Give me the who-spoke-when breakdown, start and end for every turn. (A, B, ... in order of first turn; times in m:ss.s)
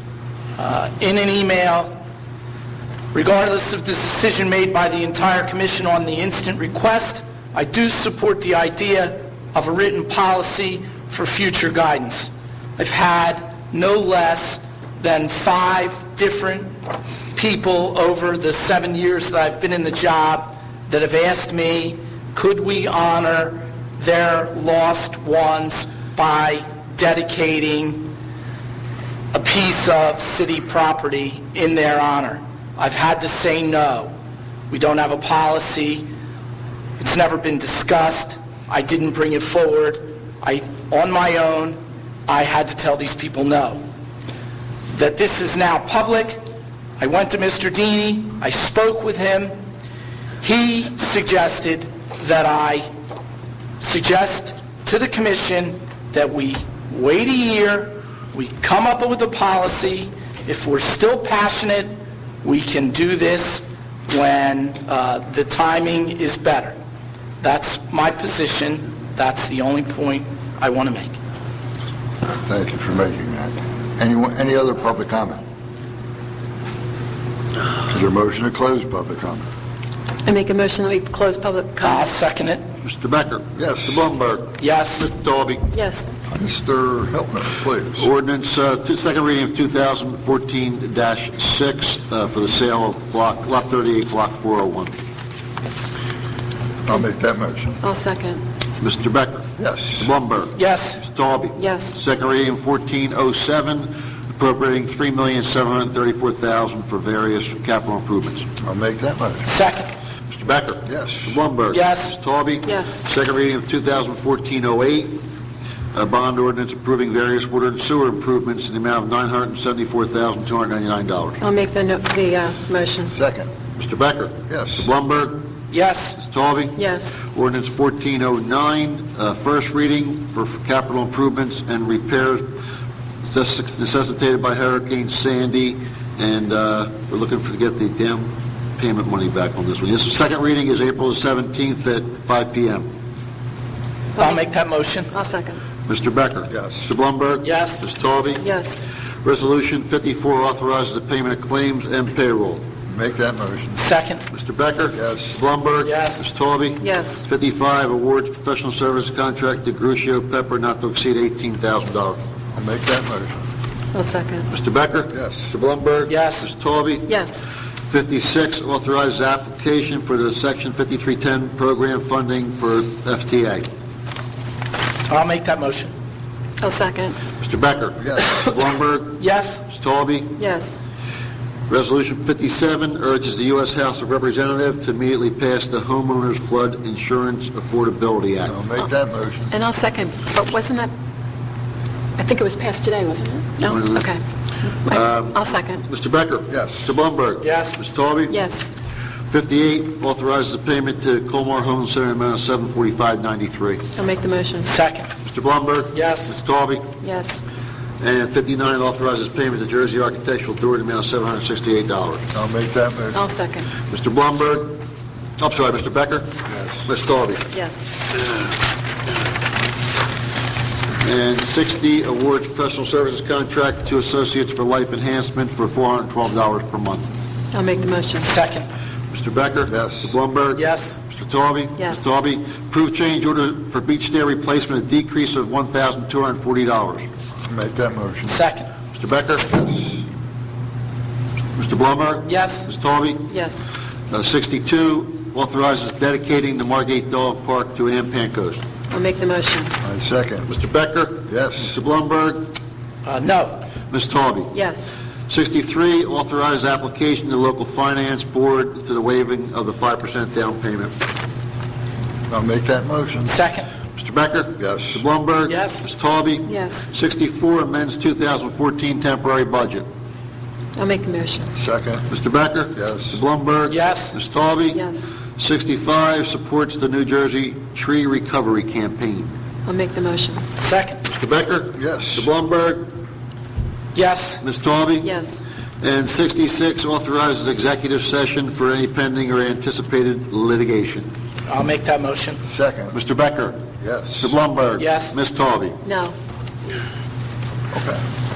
0:00.6-0:01.9 A
0:03.1-0:16.7 A
0:17.3-0:28.1 A
0:29.3-0:34.1 A
0:34.7-0:36.1 A
0:37.0-0:43.8 A
0:44.9-0:46.4 A
0:47.0-0:49.5 A
0:50.4-0:52.9 A
0:53.8-1:06.8 A
1:07.4-1:11.2 A
1:12.4-1:15.4 B
1:17.9-1:19.4 B
1:20.2-1:22.1 C
1:21.8-1:22.6 A
1:22.8-1:25.7 D
1:23.6-1:24.0 B
1:24.6-1:25.1 A
1:25.7-1:26.2 C
1:26.3-1:28.0 B
1:28.0-1:34.9 D
1:36.8-1:37.8 B
1:37.8-1:38.4 C
1:38.8-1:48.5 D
1:39.6-1:40.1 B
1:40.6-1:41.0 A
1:41.6-1:42.0 C
1:48.6-1:49.4 B
1:49.4-1:49.9 A
1:50.3-1:55.2 D
1:50.9-1:51.4 B
1:51.7-1:52.2 A
1:52.6-1:53.0 C
1:55.9-2:01.4 D
2:01.4-2:03.1 C
2:03.1-2:03.5 B
2:03.8-2:05.4 D
2:04.5-2:04.9 B
2:05.7-2:06.2 A
2:06.2-2:12.6 D
2:06.8-2:07.2 C
2:13.3-2:22.9 D
2:24.2-2:24.5 C
2:24.2-2:25.1 A
2:25.1-2:25.6 C
2:25.9-2:28.4 D
2:26.5-2:26.9 B
2:27.4-2:27.9 A
2:28.4-2:28.8 C
2:29.2-2:32.6 D
2:32.9-2:33.8 B
2:33.7-2:34.2 A
2:34.3-2:42.2 D
2:34.9-2:35.3 B
2:35.8-2:36.3 A
2:36.8-2:37.2 C
2:42.5-2:43.3 B
2:43.9-2:44.5 C
2:44.5-2:47.1 D
2:45.1-2:45.5 B
2:46.1-2:46.5 A
2:47.0-2:47.4 C
2:47.9-2:53.6 D
2:55.1-2:55.9 A
2:56.6-2:57.2 C
2:57.4-3:00.4 D
2:58.0-2:58.3 B
2:59.2-2:59.6 A
3:00.4-3:00.8 C
3:01.7-3:08.6 D
3:08.4-3:09.5 B
3:09.5-3:10.9 C
3:12.2-3:14.2 C
3:13.6-3:14.1 D
3:14.8-3:15.8 C
3:14.9-3:18.4 D
3:16.5-3:16.9 B
3:17.4-3:17.8 A
3:18.3-3:18.7 C
3:19.3-3:23.8 D
3:24.0-3:24.7 C
3:24.6-3:25.1 A
3:25.2-3:26.9 D
3:25.9-3:26.3 A
3:27.0-3:27.4 C
3:28.0-3:32.2 D
3:32.3-3:33.2 B
3:33.1-3:33.7 C
3:33.8-3:34.7 D
3:35.4-3:36.3 D
3:36.5-3:36.8 B
3:36.8-3:37.4 D
3:37.5-3:37.9 C
3:41.0-3:47.1 D
3:47.5-3:48.3 C
3:48.2-3:48.7 A
3:49.1-3:57.0 D
3:49.7-3:50.1 B
3:50.5-3:51.0 A
3:51.8-3:52.1 C
3:57.4-3:58.4 B
3:58.2-3:58.7 A
3:58.9-3:59.5 D
3:59.5-4:00.0 B
4:01.5-4:03.3 D
4:02.2-4:02.7 A
4:03.3-4:03.7 C
4:04.1-4:08.6 D
4:08.9-4:09.7 C
4:09.8-4:10.5 B
4:10.4-4:12.5 D
4:11.3-4:11.7 B
4:13.0-4:13.6 A
4:13.9-4:14.6 D
4:14.5-4:14.9 C
4:15.3-4:20.9 D
4:22.3-4:23.3 B
4:23.2-4:23.7 A
4:24.0-4:29.8 D
4:24.6-4:25.0 B
4:25.5-4:25.9 A
4:26.4-4:26.9 C
4:30.8-4:31.5 C
4:31.6-4:32.0 B
4:32.1-4:39.3 D
4:32.7-4:33.2 B
4:33.7-4:34.2 A
4:34.7-4:35.1 C
4:39.6-4:40.4 C
4:40.6-4:41.0 A
4:41.0-4:42.9 D
4:41.8-4:42.3 B
4:43.9-4:44.4 A
4:44.4-4:45.1 D
4:45.0-4:45.4 C
4:45.8-4:51.1 D
4:51.4-4:52.4 A
4:52.5-4:52.9 B
4:52.9-4:53.6 D
4:53.8-4:54.3 B
4:54.2-4:55.8 D
4:54.8-4:55.2 A
4:55.8-4:56.1 C
4:57.7-4:58.0 B